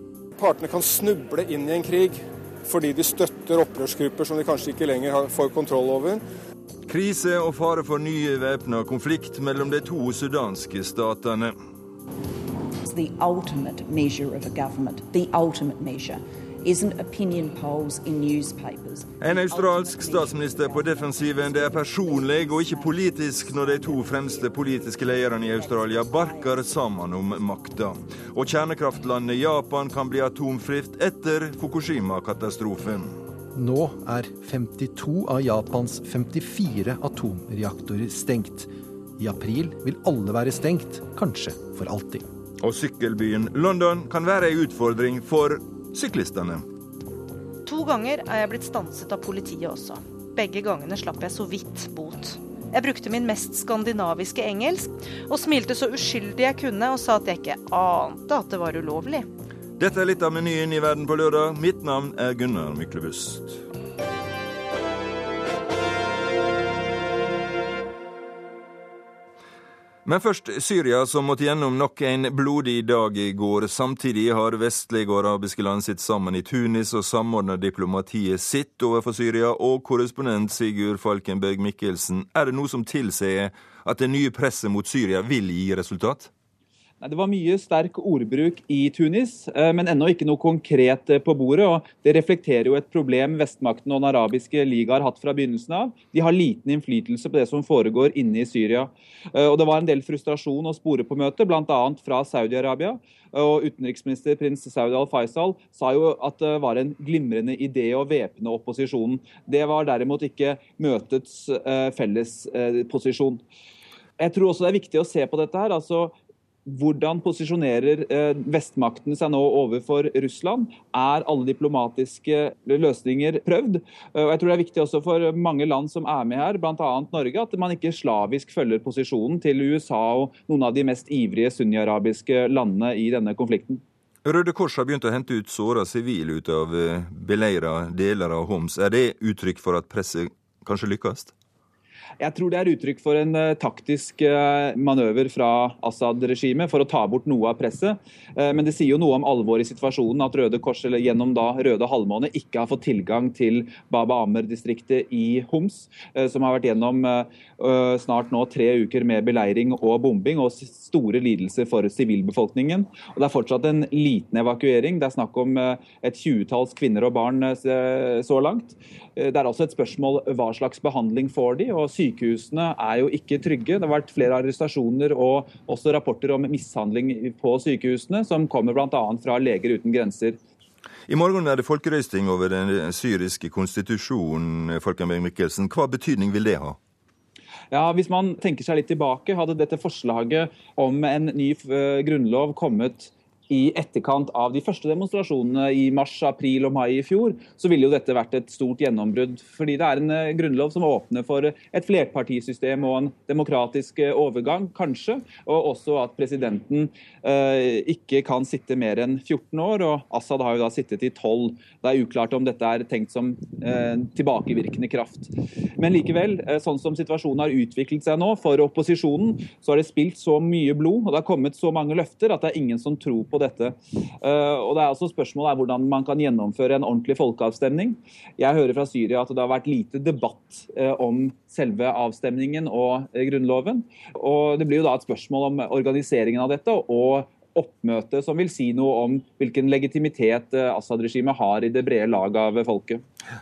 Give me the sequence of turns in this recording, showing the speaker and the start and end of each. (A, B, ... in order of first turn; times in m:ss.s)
0:00.4-0:06.2 A
0:06.9-0:11.6 B
0:12.9-0:28.1 C
0:19.2-0:33.2 B
0:33.5-0:42.2 D
0:42.6-0:46.6 B
0:47.7-0:59.3 E
0:59.8-1:03.6 B
1:10.0-1:26.3 B
1:27.0-1:53.4 F
1:54.2-1:56.2 F
1:56.7-2:13.8 F
2:14.2-2:21.3 B
2:22.2-3:00.4 F
3:01.1-3:06.8 B
3:07.7-4:03.0 F